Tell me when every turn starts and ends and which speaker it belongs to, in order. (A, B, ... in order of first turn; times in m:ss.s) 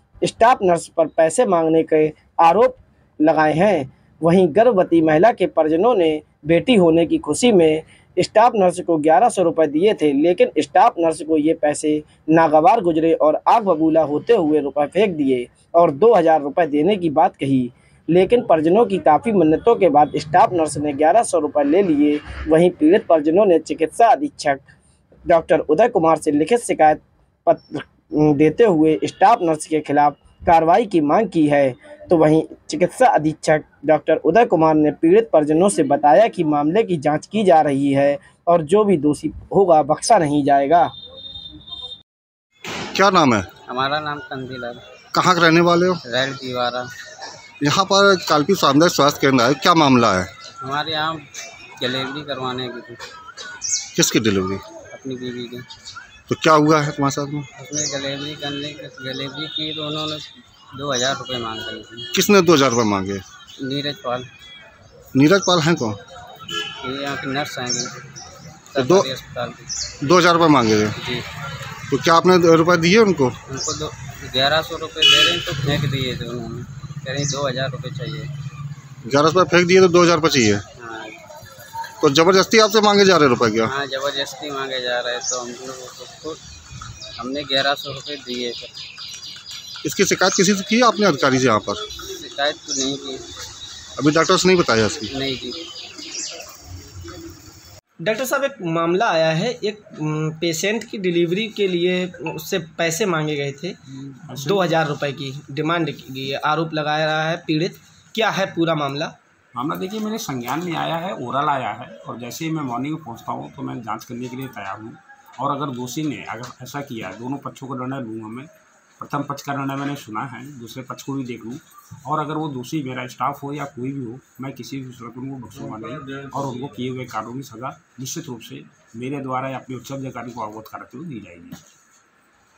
0:00.2-0:24.6 A
0:25.3-0:40.9 A
0:42.9-0:43.5 B
0:43.7-0:44.8 C
0:45.1-0:46.0 B
0:46.0-0:46.9 C
0:47.6-0:50.3 B
0:50.6-0:51.2 C
0:51.8-0:53.0 C
0:53.9-0:54.6 B
0:54.9-0:55.6 C
0:56.3-0:57.5 B
0:57.6-1:02.1 C
1:02.1-1:03.2 B
1:03.6-1:04.3 C
1:05.1-1:06.0 B
1:06.8-1:07.9 C
1:08.7-1:09.7 C
1:08.8-1:09.1 B
1:10.0-1:10.9 B
1:11.0-1:11.2 C
1:11.9-1:13.3 B
1:13.5-1:18.3 C
1:19.0-1:20.6 B
1:20.8-1:21.2 C
1:22.0-1:23.7 B
1:23.6-1:26.4 C
1:27.2-1:28.7 C
1:29.8-1:31.8 B
1:32.1-1:33.2 C
1:34.0-1:35.1 B
1:35.1-1:35.6 C
1:38.0-1:43.8 A
1:44.3-1:44.7 D
1:44.4-1:49.1 A
1:49.5-2:11.6 D